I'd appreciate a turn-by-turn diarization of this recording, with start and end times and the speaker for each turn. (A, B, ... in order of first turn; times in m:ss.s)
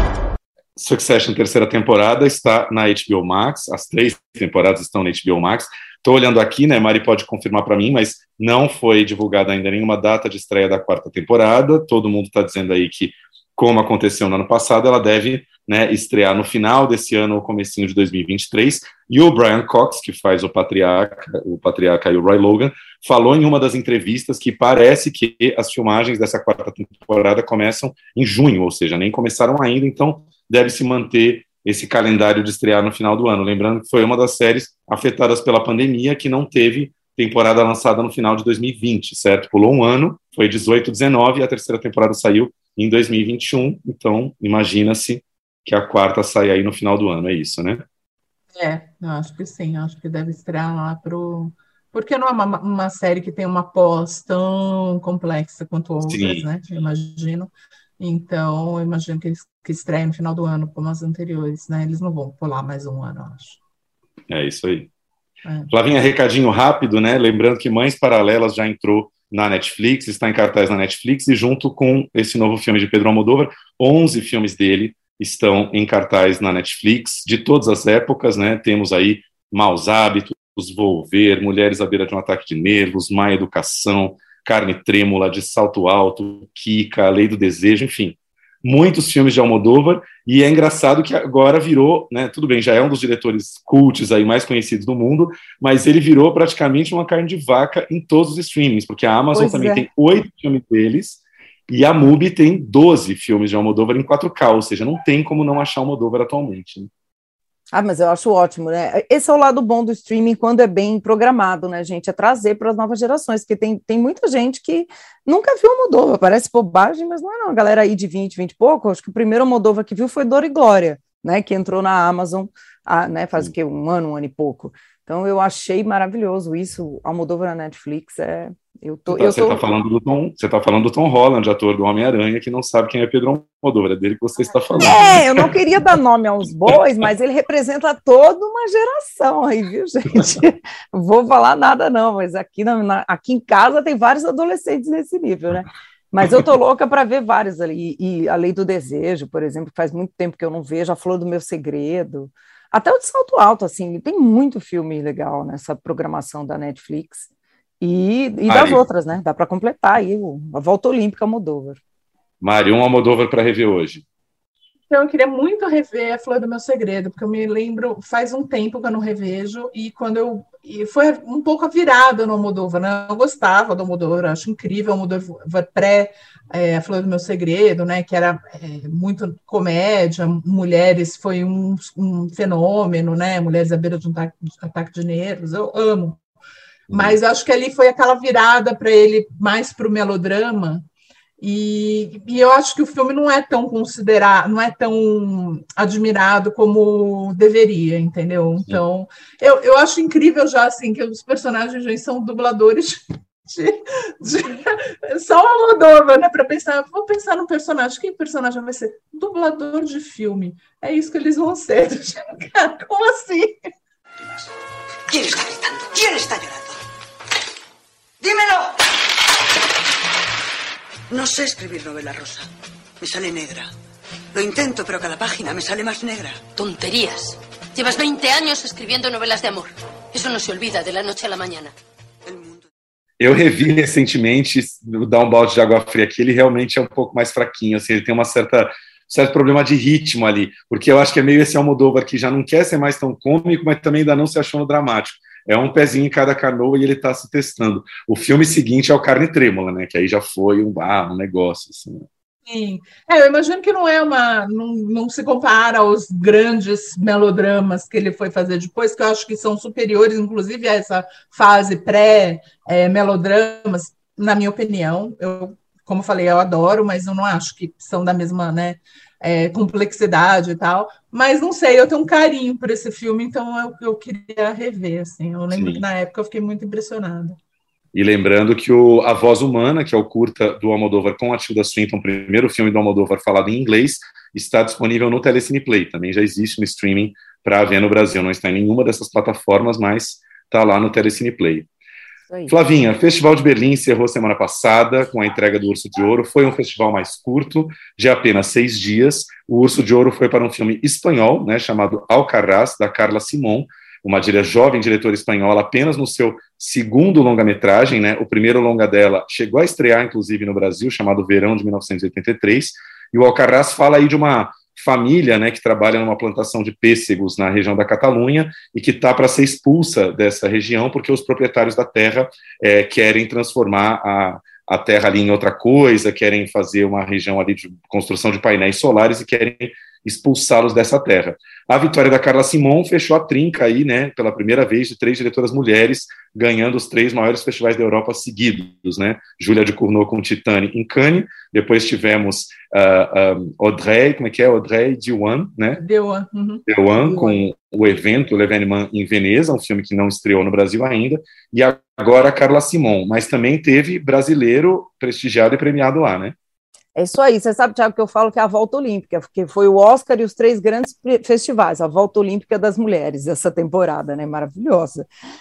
0:00.8-0:47.8 A
0:48.6-1:03.6 B
0:56.0-0:56.4 A
1:04.3-1:04.9 A
1:05.7-1:46.9 A
1:39.3-1:39.8 C
1:47.7-2:09.6 C
2:09.1-2:15.5 A
2:14.8-2:37.2 C
2:37.8-2:41.8 C
2:38.5-2:38.8 A
2:42.4-2:44.0 A
2:44.9-3:06.2 B
3:06.9-3:10.8 B
3:11.4-3:33.6 B
3:35.1-3:36.8 D
3:38.2-3:38.8 D
3:41.1-3:42.5 D
3:43.0-3:43.7 D
3:44.3-3:46.5 D
3:46.6-3:51.7 E
3:52.2-3:52.6 D
3:53.2-4:12.0 A
4:12.5-4:37.4 B
4:35.5-4:35.8 A
4:37.9-4:51.7 A
4:52.3-4:52.5 C
4:52.5-5:45.8 A
5:45.8-5:47.4 B
5:46.7-5:56.3 A
5:56.9-6:05.1 C